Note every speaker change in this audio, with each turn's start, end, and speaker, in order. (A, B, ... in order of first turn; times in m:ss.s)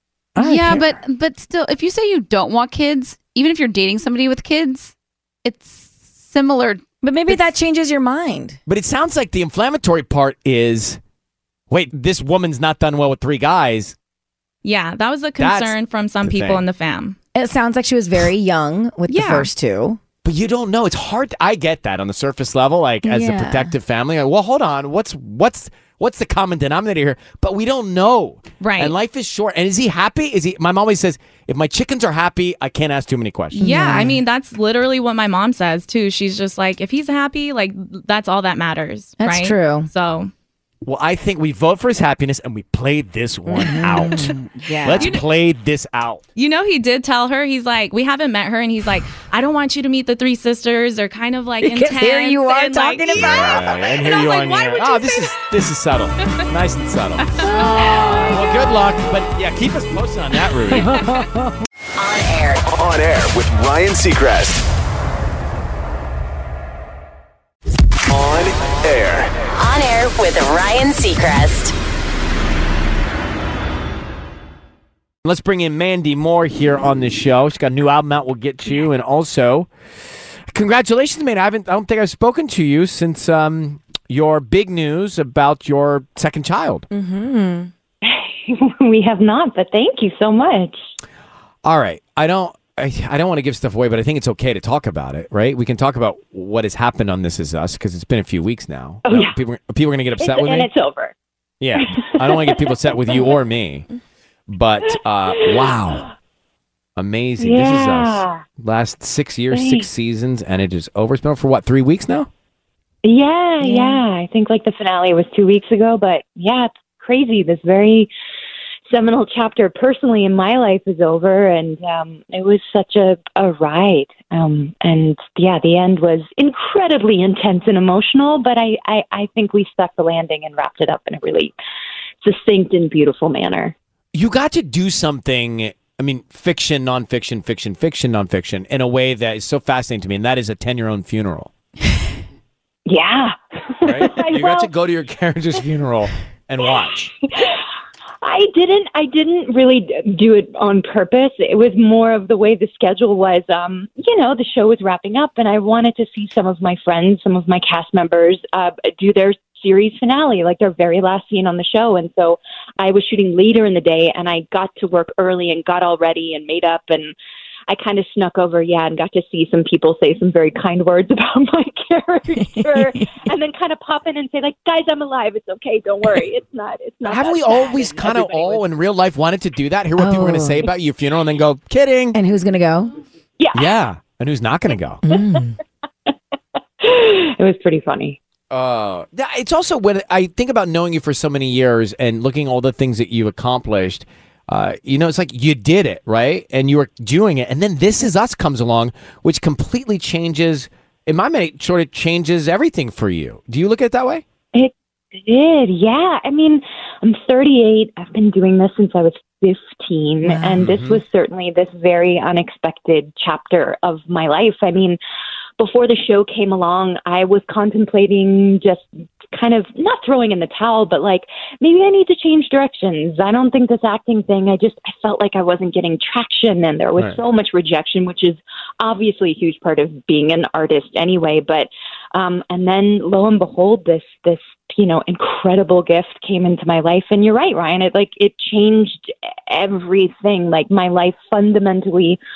0:00.4-0:00.9 A
0:00.4-0:04.9 B
0:05.4-0:07.4 B
0:07.0-0:08.6 C
0:08.7-0:11.0 A
0:11.7-0:14.0 A
0:14.6-0:17.2 D
0:15.4-0:16.6 A
0:17.3-0:20.0 C
0:19.1-0:19.5 D
0:20.2-0:33.6 A
0:23.0-0:23.7 C
0:28.6-0:28.9 D
0:33.5-0:40.3 D
0:33.6-0:34.2 C
0:39.2-0:39.9 C
0:40.8-0:46.2 A
0:43.5-0:45.2 C
0:45.0-0:45.2 D
0:46.4-0:55.4 D
0:51.6-0:53.8 C
0:53.1-0:57.4 A
0:57.6-0:58.2 C
0:58.2-1:01.0 A
1:02.0-1:02.6 E
1:02.6-1:04.6 F
1:08.1-1:09.3 F
1:09.6-1:11.7 E
1:15.2-1:19.7 A
1:20.5-1:26.9 A
1:26.9-1:27.7 C
1:28.0-1:30.8 G
1:31.6-1:40.7 A
1:39.0-1:39.4 G
1:40.2-1:41.1 G
1:41.6-1:43.8 A
1:41.8-1:43.3 G
1:44.5-1:46.1 A
1:45.4-1:45.7 G
1:47.0-1:52.3 A
1:47.4-1:48.4 G
1:49.5-1:49.9 G
1:53.0-1:58.1 G
1:53.6-1:54.0 C
1:58.9-2:11.5 G
2:12.2-2:13.7 G
2:14.1-2:21.5 A
2:22.8-2:24.7 G
2:23.8-2:27.1 A
2:28.2-2:47.1 G
2:47.7-2:58.6 G
2:52.4-2:53.1 C
2:57.0-3:02.2 A
3:00.0-3:00.7 C
3:02.1-3:02.9 C
3:03.4-3:03.7 G
3:03.5-3:05.0 A
3:05.0-3:05.6 C
3:05.1-3:05.4 G
3:06.8-3:08.2 G
3:08.5-3:24.2 A
3:24.5-3:35.0 G
3:30.2-3:30.7 C
3:30.6-3:31.0 A
3:35.6-4:02.2 G